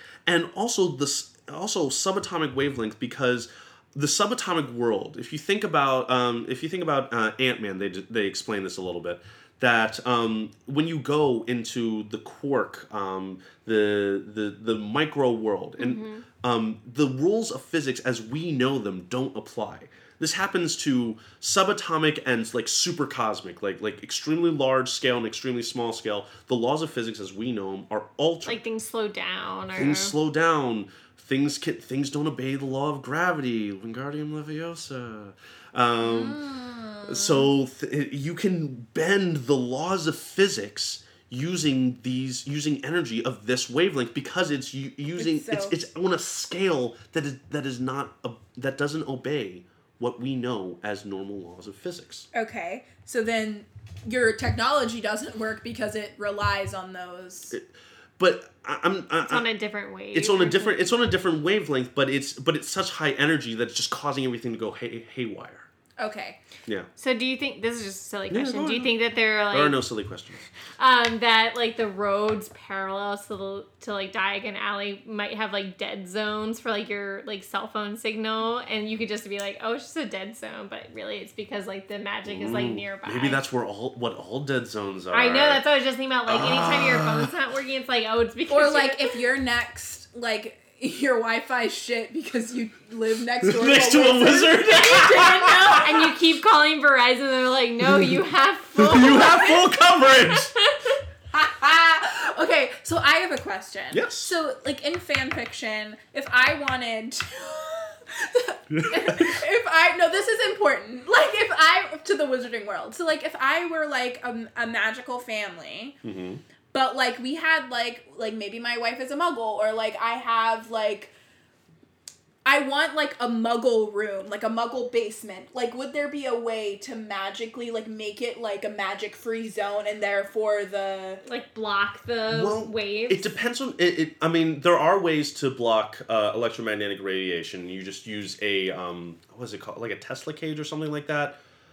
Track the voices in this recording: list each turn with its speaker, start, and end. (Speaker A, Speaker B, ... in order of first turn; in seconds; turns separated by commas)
Speaker A: 0.3-28.6, Speaker B: 15.8-16.2, Speaker B: 28.4-30.1, Speaker A: 29.8-36.4, Speaker C: 36.0-37.5, Speaker A: 37.0-52.3, Speaker C: 45.2-45.8, Speaker C: 52.3-57.5, Speaker A: 58.2-59.5, Speaker B: 59.2-60.9, Speaker A: 60.1-65.7, Speaker C: 66.0-66.4, Speaker B: 67.0-69.8, Speaker A: 68.3-69.0, Speaker A: 69.5-70.5, Speaker B: 70.8-83.4, Speaker A: 82.3-85.6, Speaker B: 85.1-89.2, Speaker A: 86.3-87.3, Speaker C: 88.5-96.1, Speaker A: 93.4-96.1, Speaker B: 95.8-101.0, Speaker A: 97.8-98.2, Speaker A: 98.8-100.5, Speaker C: 101.3-116.0, Speaker A: 103.9-104.3, Speaker A: 108.7-109.4, Speaker A: 116.0-116.4, Speaker C: 116.7-121.1, Speaker C: 122.5-131.2, Speaker B: 131.2-133.3, Speaker A: 132.3-141.4